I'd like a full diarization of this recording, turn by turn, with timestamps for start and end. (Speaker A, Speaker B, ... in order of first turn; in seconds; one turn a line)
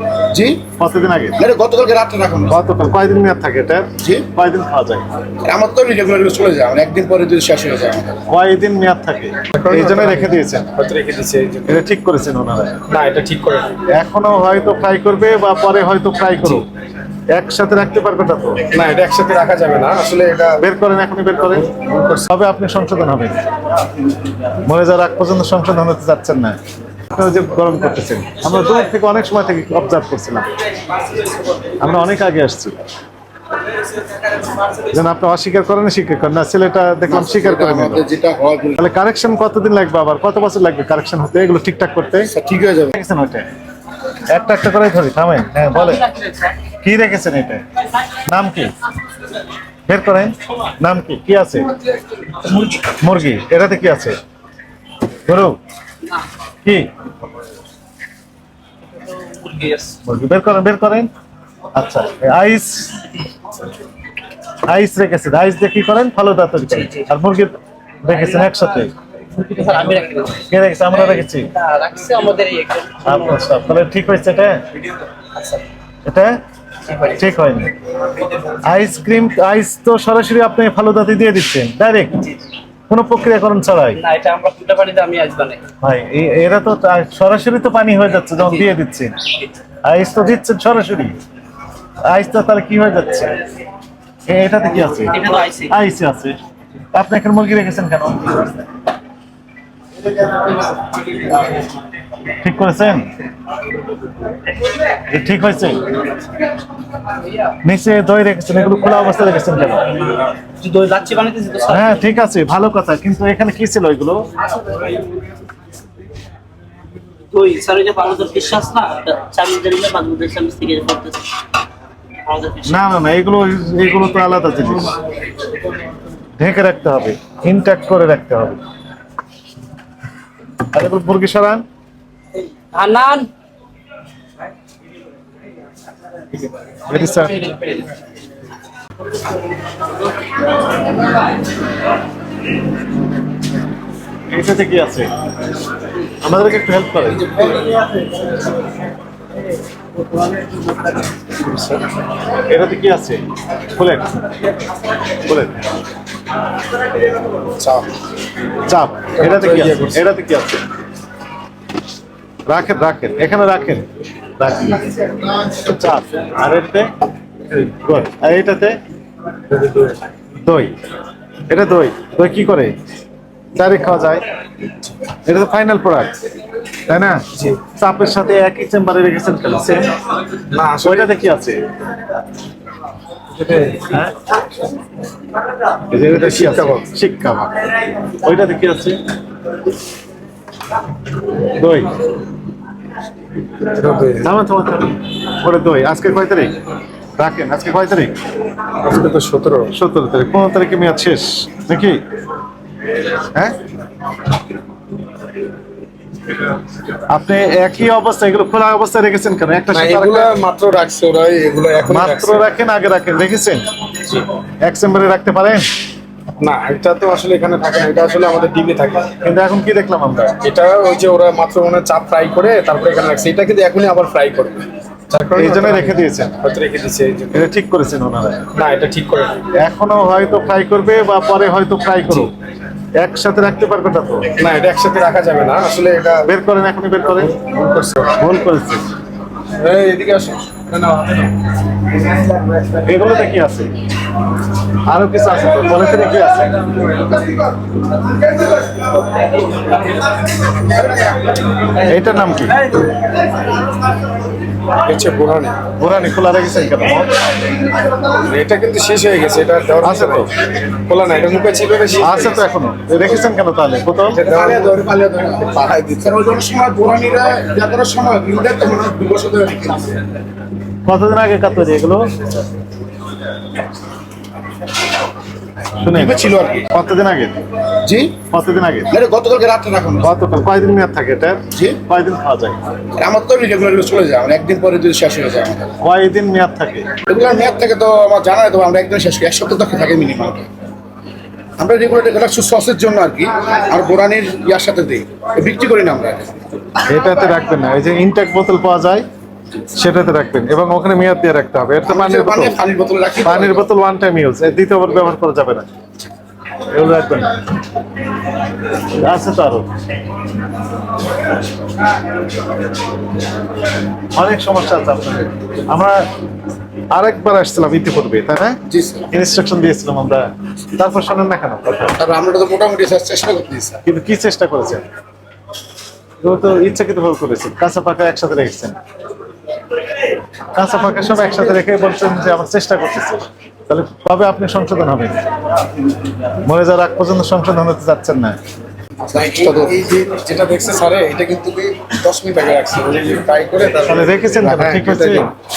Speaker A: 0.3-0.6
Speaker B: 0.8-1.4
Speaker A: 1.4-2.6
Speaker B: 2.5-5.0
Speaker A: 4.0-4.3
Speaker A: 5.4-8.2
Speaker B: 8.3-10.7
Speaker C: 9.5-11.8
Speaker B: 11.7-12.8
Speaker C: 12.9-13.7
Speaker B: 13.9-16.7
Speaker B: 17.3-18.6
Speaker C: 18.7-20.6
Speaker B: 20.6-23.4
Speaker C: 21.7-22.2
Speaker B: 24.6-26.6
Speaker B: 27.1-30.5
Speaker B: 31.8-32.8
Speaker B: 34.9-38.0
Speaker A: 37.1-38.8
Speaker B: 38.8-42.3
Speaker A: 42.3-43.0
Speaker B: 42.9-43.5
Speaker B: 44.3-46.1
Speaker D: 46.1-46.5
Speaker B: 46.8-48.8
Speaker B: 49.9-51.8
Speaker B: 52.7-54.2
Speaker B: 55.3-55.6
Speaker B: 56.6-56.9
Speaker D: 59.0-60.0
Speaker B: 60.0-61.1
Speaker B: 61.7-63.1
Speaker B: 64.7-68.9
Speaker D: 69.3-73.4
Speaker B: 70.5-71.5
Speaker B: 73.0-74.6
Speaker D: 75.4-75.6
Speaker B: 76.0-76.4
Speaker D: 76.9-77.2
Speaker B: 77.1-77.7
Speaker B: 78.7-82.3
Speaker B: 82.9-84.0
Speaker D: 84.0-85.6
Speaker B: 85.8-89.2
Speaker B: 89.8-91.2
Speaker B: 92.1-93.3
Speaker B: 94.3-96.4
Speaker D: 95.1-95.7
Speaker B: 96.9-98.6
Speaker B: 102.4-103.1
Speaker B: 105.1-105.9
Speaker B: 107.6-110.2
Speaker D: 110.6-112.0
Speaker B: 111.7-114.3
Speaker D: 117.3-121.3
Speaker D: 122.3-122.8
Speaker B: 122.7-125.0
Speaker B: 126.4-128.6
Speaker B: 130.7-131.7
Speaker D: 132.7-133.3
Speaker B: 136.9-137.5
Speaker D: 137.4-137.8
Speaker B: 144.3-145.1
Speaker B: 146.2-147.5
Speaker C: 151.2-151.8
Speaker B: 152.4-154.1
Speaker B: 155.2-155.7
Speaker C: 157.4-157.9
Speaker B: 158.6-160.6
Speaker C: 159.2-160.0
Speaker B: 162.5-163.8
Speaker B: 164.4-164.9
Speaker B: 165.4-166.9
Speaker B: 167.6-168.8
Speaker C: 169.5-170.0
Speaker B: 170.4-170.7
Speaker B: 171.5-172.8
Speaker B: 173.6-174.2
Speaker B: 175.2-176.1
Speaker B: 176.9-179.9
Speaker C: 180.5-181.2
Speaker B: 180.8-181.6
Speaker C: 183.3-184.0
Speaker B: 185.9-187.5
Speaker C: 186.1-186.8
Speaker B: 188.2-189.0
Speaker B: 191.4-191.9
Speaker C: 193.7-194.3
Speaker B: 194.2-196.6
Speaker B: 197.2-198.2
Speaker C: 198.8-199.7
Speaker B: 199.7-202.0
Speaker B: 203.2-203.6
Speaker B: 207.1-210.3
Speaker C: 209.7-212.5
Speaker B: 211.9-213.7
Speaker B: 214.6-215.7
Speaker C: 216.4-219.1
Speaker B: 219.2-220.4
Speaker C: 220.4-227.5
Speaker B: 225.4-226.4
Speaker B: 227.3-228.4
Speaker C: 228.5-229.4
Speaker B: 229.6-232.3
Speaker B: 233.0-234.3
Speaker C: 234.4-236.3
Speaker B: 236.3-237.4
Speaker C: 237.3-238.2
Speaker B: 238.2-238.9
Speaker C: 239.6-241.4
Speaker B: 242.7-243.7
Speaker B: 244.9-246.6
Speaker B: 251.8-252.6
Speaker C: 254.8-255.6
Speaker B: 255.8-257.2
Speaker C: 258.1-262.4
Speaker B: 259.8-260.3
Speaker B: 262.0-264.3
Speaker C: 264.1-264.8
Speaker A: 264.2-269.9
Speaker C: 265.5-266.1
Speaker B: 270.9-272.1
Speaker B: 275.8-277.4
Speaker A: 275.9-276.7
Speaker A: 277.8-278.2
Speaker B: 278.3-278.9
Speaker A: 278.9-280.1
Speaker B: 280.0-282.6
Speaker A: 281.5-281.8
Speaker A: 283.0-285.8
Speaker B: 285.8-286.9
Speaker A: 287.0-290.5
Speaker A: 291.6-296.3
Speaker B: 296.9-299.1
Speaker B: 299.8-302.6
Speaker A: 301.9-303.7
Speaker B: 303.2-305.7
Speaker B: 306.7-307.4
Speaker B: 308.8-309.7
Speaker B: 314.1-316.1
Speaker B: 316.9-318.6
Speaker A: 318.7-319.1
Speaker B: 319.1-322.0
Speaker A: 322.0-323.8
Speaker B: 323.9-324.8
Speaker B: 326.2-328.8
Speaker B: 330.5-335.2
Speaker B: 336.4-338.4
Speaker A: 339.0-339.9
Speaker C: 339.2-344.5
Speaker B: 343.7-345.3
Speaker A: 344.4-345.3